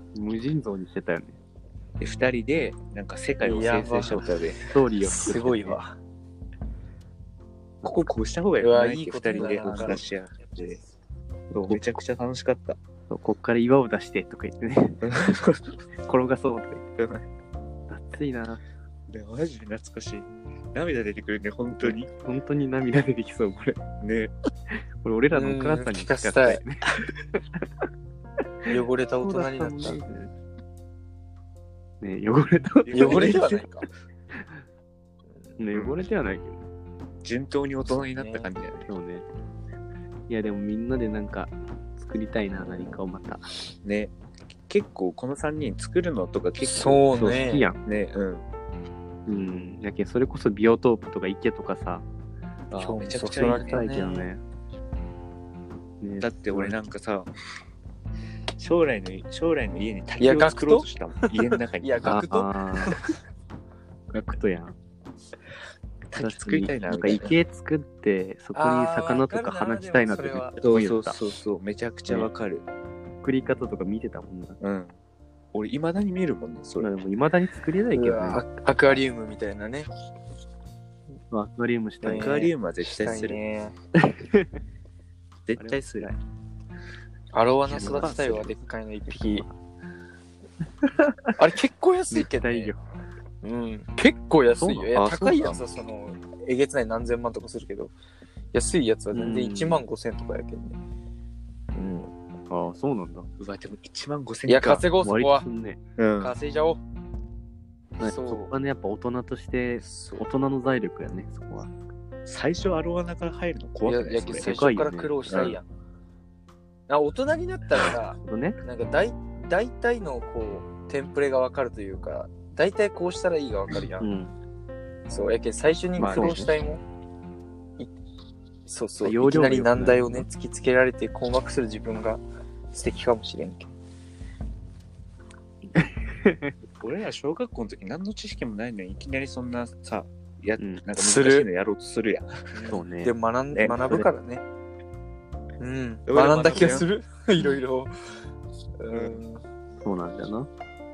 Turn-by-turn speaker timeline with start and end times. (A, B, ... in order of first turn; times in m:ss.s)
0:00.1-0:01.4 A
0:02.0-0:04.6 B
0:03.4-0:04.3 C
0:04.6-0:05.8 A
0:05.0-0:05.9 C
0:07.8-0:10.8 B
0:08.6-0:10.0 C
0:09.4-0:10.0 A
0:11.5-0:12.8 B
0:13.1-0:15.4 A
0:15.0-0:15.7 B
0:16.0-0:16.8 A
0:17.0-0:17.3 B
0:17.9-0:18.6 A
0:19.1-0:22.1 B
0:21.8-0:23.8 A
0:24.0-0:24.3 B
0:24.7-0:27.6 A
0:25.3-0:26.6 C
0:28.6-0:30.3 A
0:28.7-0:30.0 C
0:32.0-0:33.4 A
0:32.8-0:33.8 B
0:32.9-0:33.8 C
0:35.6-0:36.6 A
0:35.7-0:36.0 B
0:37.2-0:38.9 B
0:38.0-0:38.5 C
0:38.8-0:39.2 A
0:40.3-0:43.5 A
0:42.6-0:43.0 B
0:43.8-0:47.0 B
0:46.6-0:47.7 C
0:47.0-0:47.8 A
0:47.8-0:48.5 B
0:49.3-0:52.0 A
0:52.7-0:53.9 B
0:52.8-0:54.3 C
0:53.4-0:54.4 A
0:56.0-0:56.8 A
0:56.2-0:57.3 B
0:58.6-1:02.2 B
1:00.2-1:00.8 C
1:01.5-1:03.0 C
1:02.0-1:03.0 A
1:04.1-1:04.7 A
1:06.1-1:07.3 B
1:06.2-1:11.2 A
1:08.5-1:10.6 C
1:10.6-1:12.6 B
1:13.2-1:14.6 A
1:14.6-1:14.9 B
1:15.5-1:16.9 B
1:16.8-1:18.4 A
1:17.9-1:19.9 C
1:21.3-1:22.4 A
1:22.0-1:23.7 C
1:22.1-1:23.4 B
1:23.9-1:24.5 A
1:25.4-1:26.1 B
1:25.6-1:26.2 A
1:27.3-1:29.4 C
1:27.7-1:28.4 A
1:27.7-1:28.5 B
1:29.1-1:29.5 A
1:31.4-1:32.7 C
1:32.1-1:32.8 A
1:33.4-1:37.9 C
1:34.5-1:35.0 A
1:34.9-1:35.6 B
1:38.5-1:40.8 C
1:39.1-1:39.8 A
1:41.7-1:42.1 C
1:42.5-1:43.3 A
1:43.4-1:44.8 B
1:44.5-1:45.4 C
1:45.0-1:45.8 A
1:46.0-1:46.4 B
1:46.2-1:46.8 C
1:48.0-1:51.7 A
1:48.0-1:48.5 C
1:49.8-1:50.2 C
1:52.2-1:54.5 B
1:53.8-1:55.6 C
1:54.3-1:55.6 A
1:55.3-1:55.5 B
1:56.9-2:04.1 C
1:57.7-1:58.6 A
2:04.0-2:04.3 A
2:05.1-2:06.8 C
2:06.0-2:06.4 B
2:06.0-2:06.5 A
2:08.6-2:12.2 C
2:09.0-2:10.3 A
2:12.7-2:13.7 C
2:15.7-2:16.6 A
2:16.8-2:22.5 B
2:20.6-2:20.8 A
2:21.0-2:21.5 C
2:22.5-2:24.4 C
2:22.7-2:23.1 A
2:23.5-2:23.9 B
2:23.7-2:24.1 A
2:25.6-2:27.9 C
2:26.1-2:26.9 B
2:28.8-2:29.4 C
2:28.9-2:29.2 B
2:29.8-2:30.5 A